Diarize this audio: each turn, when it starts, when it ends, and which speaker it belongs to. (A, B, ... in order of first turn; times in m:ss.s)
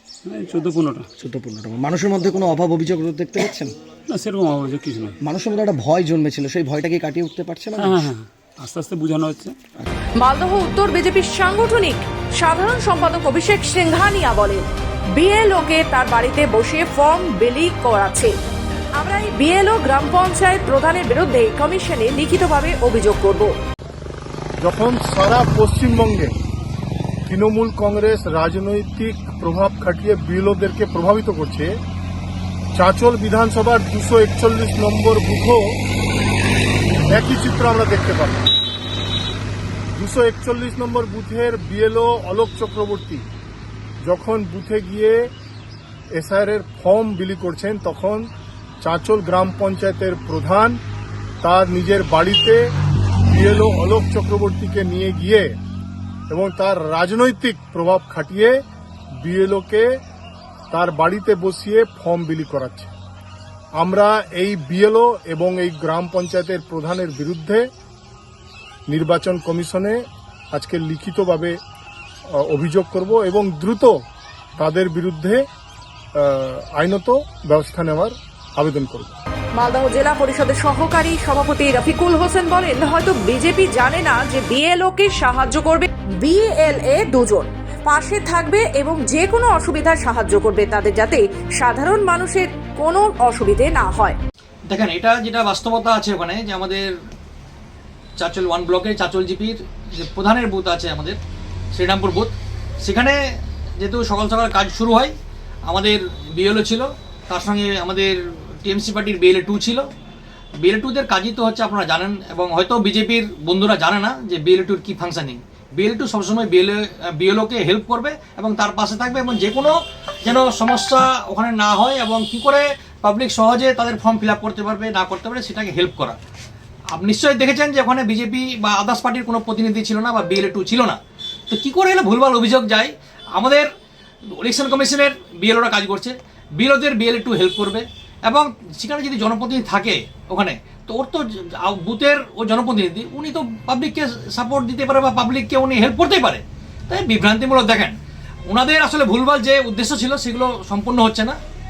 0:00.3-0:01.1 A
0:01.2-0:03.8 B
0:04.1-0:05.2 A
0:05.2-0:08.1 B
0:07.8-0:09.6 A
0:10.2-0:14.6 C
0:15.2-0:18.3 C
0:19.0-0:23.5 C
0:24.6-0:26.3 D
0:27.3-0:31.8 D
0:32.8-0:35.8 D
0:37.1-0:38.5 D
0:40.0-0:43.2 D
0:44.0-0:45.3 D
0:46.1-0:48.3 D
0:48.8-0:50.8 D
0:51.4-0:52.6 D
0:53.3-0:55.5 D
0:56.3-0:58.6 D
0:59.2-0:59.9 D
1:00.7-1:02.9 D
1:03.8-1:07.7 D
1:08.9-1:10.0 D
1:10.5-1:11.6 D
1:12.4-1:13.9 D
1:14.6-1:15.4 D
1:16.2-1:19.2 D
1:19.6-1:34.2 C
1:34.7-1:36.9 E
1:38.2-1:41.2 E
1:41.8-1:43.2 E
1:43.8-1:45.2 E
1:45.7-1:49.8 E
1:50.6-2:06.2 E
2:07.0-2:11.0 E
2:11.5-2:13.7 E
2:14.4-2:28.0 E
2:28.5-2:31.4 E